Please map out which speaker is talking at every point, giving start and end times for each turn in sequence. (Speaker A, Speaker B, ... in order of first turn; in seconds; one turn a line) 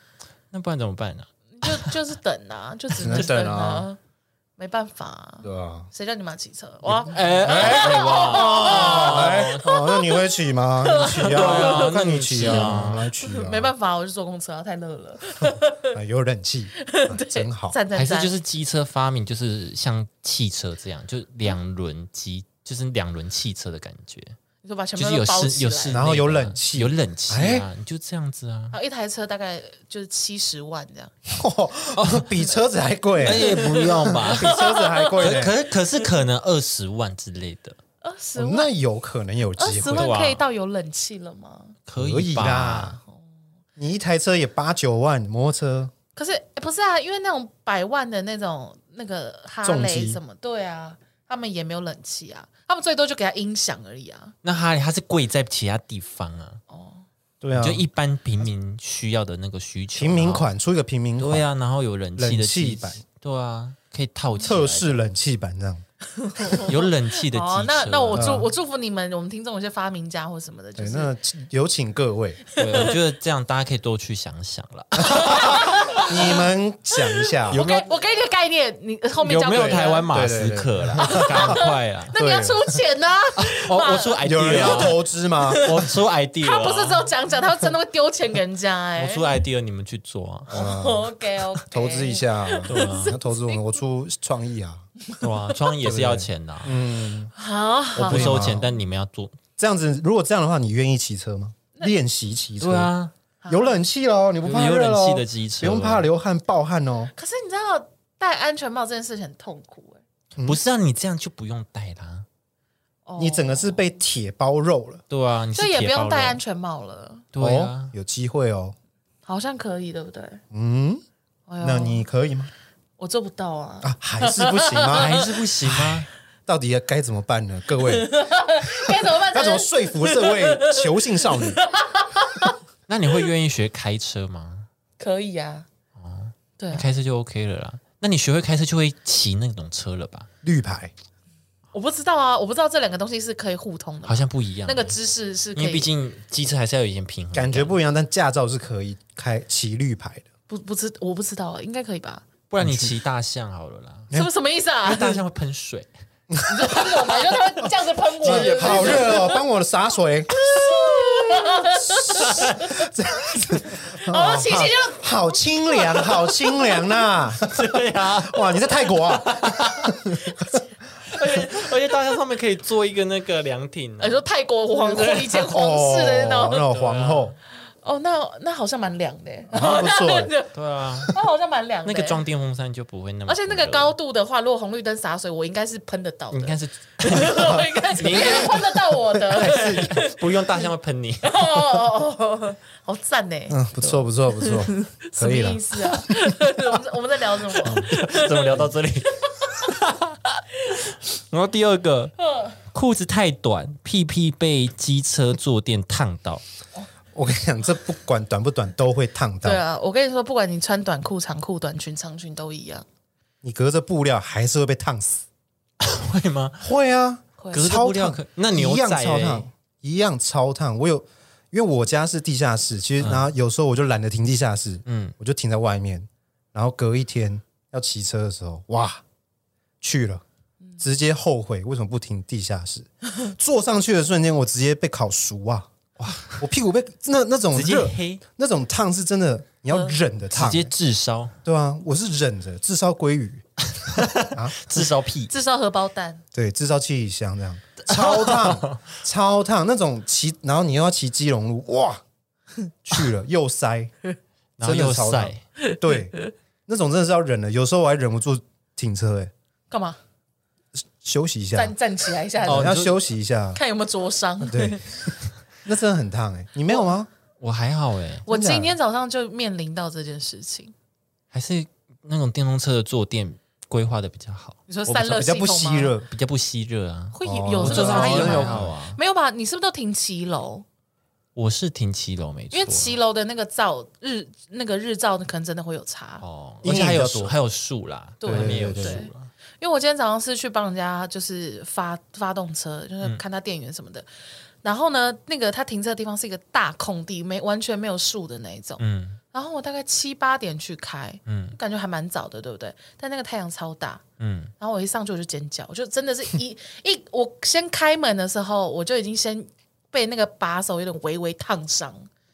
Speaker A: 0.5-1.9
Speaker B: 1.5-4.0
Speaker C: 3.0-3.9
Speaker B: 4.6-16.0
Speaker C: 5.4-5.9
Speaker A: 7.0-9.7
Speaker C: 7.4-13.7
Speaker A: 11.0-13.1
Speaker C: 15.5-17.8
Speaker B: 16.8-18.4
Speaker A: 17.9-24.4
Speaker B: 24.6-26.0
Speaker A: 25.0-28.8
Speaker C: 25.9-27.7
Speaker B: 28.7-31.1
Speaker C: 31.3-35.5
Speaker A: 32.0-32.4
Speaker A: 33.2-34.6
Speaker B: 33.3-35.4
Speaker A: 35.1-37.8
Speaker B: 38.0-38.7
Speaker C: 38.4-40.1
Speaker B: 39.6-41.8
Speaker A: 39.9-40.4
Speaker A: 41.9-43.0
Speaker C: 42.0-43.0
Speaker C: 43.8-45.9
Speaker B: 46.2-54.3
Speaker C: 49.6-50.2
Speaker A: 54.4-56.6
Speaker B: 56.7-57.0
Speaker C: 57.4-57.9
Speaker A: 57.5-60.5
Speaker C: 60.0-61.5
Speaker A: 61.2-64.9
Speaker C: 62.2-63.0
Speaker C: 64.4-65.8
Speaker B: 66.2-71.1
Speaker A: 66.6-68.3
Speaker C: 68.1-68.5
Speaker C: 70.8-72.4
Speaker B: 72.5-73.0
Speaker A: 72.6-76.1
Speaker C: 75.0-77.6
Speaker B: 75.0-76.4
Speaker B: 77.0-80.1
Speaker A: 77.5-77.9
Speaker A: 79.2-82.1
Speaker C: 79.8-81.6
Speaker B: 81.0-85.9
Speaker C: 82.2-82.8
Speaker A: 83.4-85.0
Speaker C: 84.2-85.8
Speaker A: 85.6-87.1
Speaker B: 86.4-89.3
Speaker A: 89.0-90.6
Speaker B: 90.5-93.8
Speaker C: 90.5-91.1
Speaker C: 91.7-94.8
Speaker A: 92.7-93.2
Speaker A: 95.2-96.8
Speaker C: 95.8-97.3
Speaker B: 97.3-98.7
Speaker A: 98.0-99.4
Speaker C: 98.1-98.6
Speaker C: 99.6-102.9
Speaker A: 102.6-103.1
Speaker B: 103.4-103.8
Speaker C: 103.5-107.1
Speaker A: 104.4-106.1
Speaker B: 107.2-110.0
Speaker A: 110.4-112.3
Speaker B: 113.1-113.8
Speaker C: 113.2-115.0
Speaker A: 115.1-116.4
Speaker B: 115.5-117.3
Speaker A: 117.3-117.9
Speaker C: 117.4-118.8
Speaker B: 119.3-120.4
Speaker C: 120.5-121.0
Speaker B: 121.5-122.0
Speaker C: 121.6-122.5
Speaker B: 123.0-125.4
Speaker C: 123.8-128.1
Speaker A: 124.9-126.1
Speaker B: 127.8-132.6
Speaker C: 128.8-131.6
Speaker A: 132.9-134.7
Speaker B: 135.0-135.7
Speaker A: 136.0-140.3
Speaker B: 136.6-136.9
Speaker C: 140.4-140.9
Speaker B: 141.7-145.9
Speaker A: 144.1-144.9
Speaker A: 145.6-147.8
Speaker C: 147.3-150.2
Speaker B: 150.5-152.3
Speaker A: 152.5-154.1
Speaker C: 152.6-153.0
Speaker B: 154.1-155.2
Speaker A: 154.8-155.9
Speaker C: 156.3-156.9
Speaker B: 156.5-159.4
Speaker A: 158.2-159.3
Speaker C: 158.2-170.6
Speaker B: 160.3-162.7
Speaker A: 162.2-162.7
Speaker B: 163.7-165.1
Speaker B: 165.7-167.0
Speaker A: 167.3-170.0
Speaker A: 171.1-174.2
Speaker B: 171.1-171.7
Speaker B: 174.0-176.7
Speaker A: 174.9-175.4
Speaker C: 175.3-177.3
Speaker A: 176.7-177.4
Speaker B: 177.8-180.5
Speaker C: 179.5-180.3
Speaker A: 180.5-181.2
Speaker B: 181.1-182.2
Speaker A: 181.8-183.9
Speaker B: 183.3-190.7
Speaker A: 186.3-188.8
Speaker C: 189.1-190.0
Speaker A: 189.3-191.4
Speaker B: 191.2-193.6
Speaker C: 193.5-196.1
Speaker B: 194.7-198.7
Speaker C: 197.7-197.9
Speaker A: 197.7-202.2
Speaker B: 199.2-199.7
Speaker B: 202.2-202.5
Speaker A: 202.7-206.4
Speaker C: 207.1-209.6
Speaker B: 209.4-212.8
Speaker C: 213.4-215.2
Speaker A: 215.8-216.6
Speaker C: 216.6-229.0
Speaker A: 217.5-219.4
Speaker A: 224.9-225.1
Speaker C: 229.8-230.2
Speaker C: 230.8-235.7
Speaker A: 236.0-236.4
Speaker C: 236.3-240.7
Speaker A: 237.5-238.2
Speaker A: 240.3-241.3
Speaker C: 241.4-243.4
Speaker A: 243.8-245.3
Speaker C: 244.3-244.8
Speaker B: 245.3-246.2
Speaker C: 246.3-252.0
Speaker A: 247.9-248.8
Speaker C: 252.8-253.9
Speaker A: 254.6-255.4
Speaker C: 254.6-256.2
Speaker B: 255.6-256.3
Speaker C: 256.7-259.3
Speaker B: 259.7-260.0
Speaker C: 261.0-261.8
Speaker B: 261.6-262.8
Speaker C: 262.4-263.6
Speaker A: 262.5-263.0
Speaker B: 263.6-264.8
Speaker C: 264.4-267.1
Speaker A: 267.4-268.3
Speaker B: 268.3-270.7
Speaker C: 268.3-268.8
Speaker A: 271.3-274.7
Speaker B: 274.7-276.0
Speaker C: 274.9-276.1
Speaker A: 276.1-279.0
Speaker B: 277.1-280.6
Speaker C: 277.2-278.7
Speaker A: 281.4-283.0
Speaker B: 282.5-286.2
Speaker A: 286.2-289.3
Speaker C: 286.6-287.4
Speaker B: 288.2-294.1
Speaker C: 288.3-289.0
Speaker B: 294.6-304.0
Speaker A: 298.8-299.2
Speaker A: 301.3-301.6
Speaker A: 304.2-304.5
Speaker B: 304.6-312.1